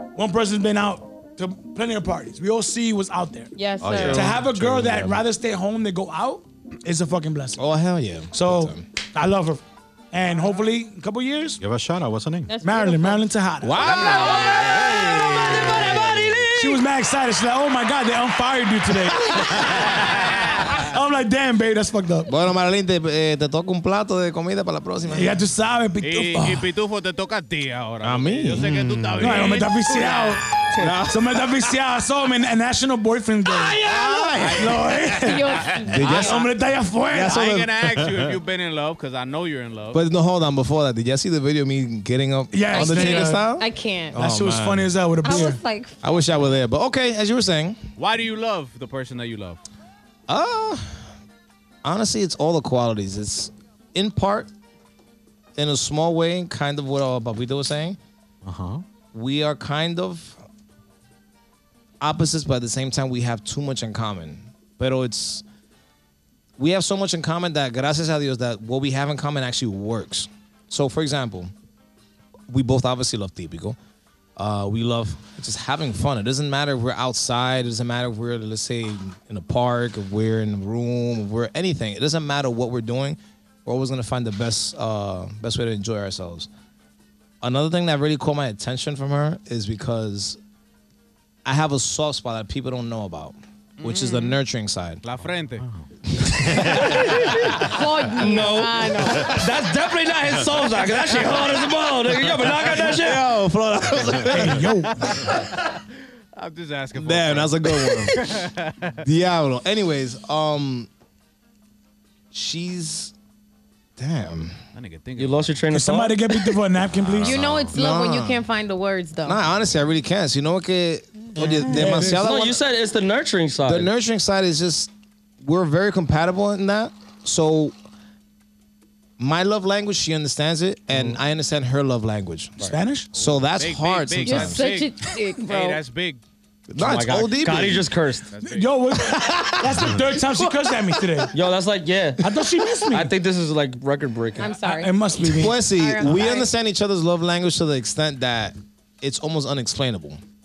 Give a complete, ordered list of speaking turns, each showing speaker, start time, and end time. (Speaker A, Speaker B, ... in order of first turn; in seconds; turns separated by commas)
Speaker A: 0.1-3.5, Speaker B: 3.5-4.3, Speaker C: 3.8-5.2, Speaker A: 4.0-7.6, Speaker D: 7.6-8.8, Speaker A: 8.3-11.6, Speaker C: 11.6-12.5, Speaker B: 12.5-13.3, Speaker A: 12.6-14.0, Speaker D: 13.6-16.3, Speaker C: 13.8-16.3, Speaker B: 13.8-14.8, Speaker E: 14.0-16.8, Speaker B: 15.6-15.9, Speaker A: 16.5-19.7, Speaker C: 19.4-19.8, Speaker F: 19.8-20.8, Speaker A: 20.8-22.3, Speaker D: 22.3-25.4, Speaker A: 25.1-26.7, Speaker F: 26.0-30.8, Speaker D: 28.0-28.8, Speaker C: 28.6-29.8, Speaker A: 29.2-33.8, Speaker C: 30.8-31.7, Speaker C: 33.5-36.0, Speaker F: 33.8-35.0, Speaker A: 34.6-35.5, Speaker B: 35.2-36.3, Speaker D: 35.9-36.4, Speaker F: 35.9-36.6, Speaker A: 36.1-37.7, Speaker F: 37.1-40.0, Speaker D: 39.9-44.9, Speaker A: 42.5-43.5, Speaker B: 42.7-44.2, Speaker A: 44.1-45.6, Speaker B: 45.2-46.0, Speaker D: 46.0-47.8, Speaker F: 48.0-49.6, Speaker D: 50.3-51.1, Speaker D: 51.8-54.5, Speaker D: 55.5-58.0, Speaker C: 58.4-58.8, Speaker D: 59.1-60.4, Speaker D: 62.0-65.4, Speaker D: 66.6-71.5, Speaker D: 72.5-73.8, Speaker D: 74.3-86.5, Speaker D: 87.4-90.4, Speaker D: 91.4-95.0, Speaker F: 93.8-94.4, Speaker F: 95.0-95.7, Speaker C: 95.6-97.6, Speaker D: 96.2-96.9, Speaker E: 96.5-103.3, Speaker B: 97.6-99.4, Speaker C: 99.0-99.4, Speaker D: 102.4-104.7, Speaker C: 103.9-104.5, Speaker A: 104.3-105.2, Speaker F: 104.7-105.4, Speaker F: 106.3-109.0, Speaker D: 106.9-108.3, Speaker D: 109.0-110.9, Speaker D: 112.3-113.1, Speaker D: 114.0-114.6, Speaker F: 114.7-115.6, Speaker E: 115.2-116.6, Speaker A: 115.7-117.3, Speaker C: 117.0-117.7, Speaker B: 117.2-119.4, Speaker D: 117.7-118.4, Speaker D: 119.2-122.6, Speaker A: 121.5-122.2, Speaker E: 122.0-123.9, Speaker D: 123.6-127.7, Speaker D: 129.2-134.7, Speaker E: 130.9-131.2, Speaker A: 132.7-133.1, Speaker F: 133.5-136.2, Speaker B: 134.2-135.8, Speaker D: 136.7-137.9, Speaker E: 136.8-138.3, Speaker F: 138.3-138.8, Speaker A: 138.4-141.3, Speaker E: 141.3-144.5, Speaker A: 142.2-143.1, Speaker B: 144.4-146.5, Speaker A: 144.5-145.7, Speaker D: 145.3-150.2